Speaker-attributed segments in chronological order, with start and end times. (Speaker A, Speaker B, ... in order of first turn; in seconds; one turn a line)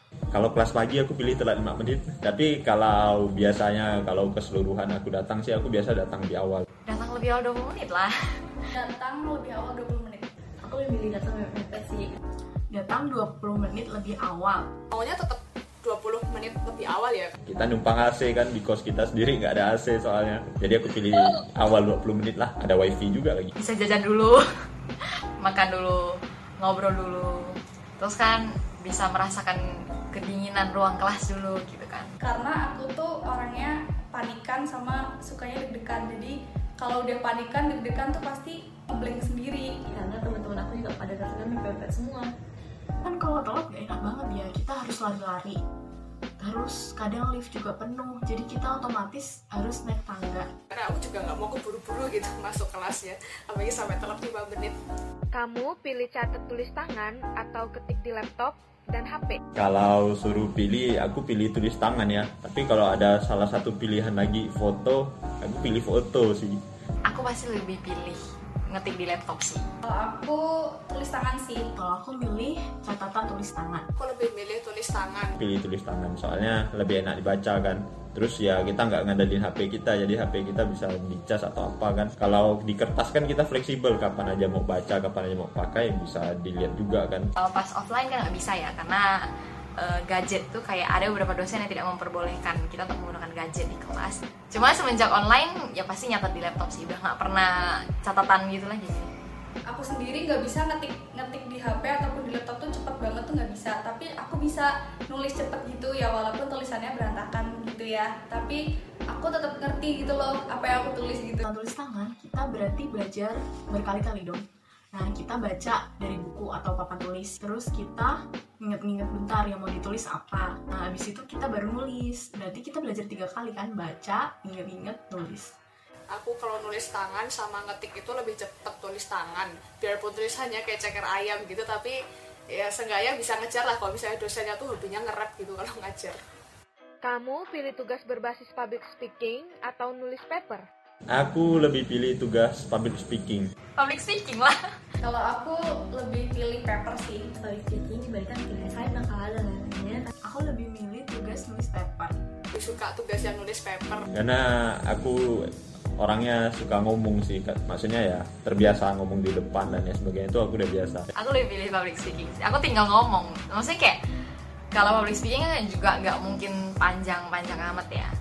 Speaker A: 0.3-6.6
Speaker B: 6.8-8.1
Speaker C: 8.7-10.3
Speaker D: 10.6-12.1
Speaker E: 12.7-14.7
Speaker F: 14.9-17.3
Speaker A: 17.4-23.5
Speaker B: 23.6-24.4
Speaker B: 25.4-29.6
Speaker B: 30.1-32.1
Speaker C: 32.2-39.7
Speaker D: 39.9-42.3
Speaker E: 43.0-45.6
Speaker E: 46.4-50.5
Speaker F: 50.7-54.8
Speaker G: 55.3-59.4
Speaker A: 59.6-66.6
Speaker B: 67.1-69.7
Speaker C: 69.8-71.7
Speaker E: 71.8-73.8
Speaker F: 74.0-75.4
Speaker A: 75.4-87.3
Speaker B: 87.4-89.1
Speaker B: 89.8-99.1
Speaker C: 99.7-108.6
Speaker C: 109.1-111.4
Speaker E: 111.4-125.5
Speaker F: 126.1-131.9
Speaker F: 132.5-136.2
Speaker G: 137.0-140.7
Speaker A: 141.1-143.5
Speaker B: 143.8-144.6
Speaker C: 145.0-147.3
Speaker D: 147.4-150.1
Speaker E: 150.2-152.2
Speaker F: 152.6-154.1
Speaker A: 154.1-161.1
Speaker B: 161.2-164.0
Speaker B: 164.7-168.1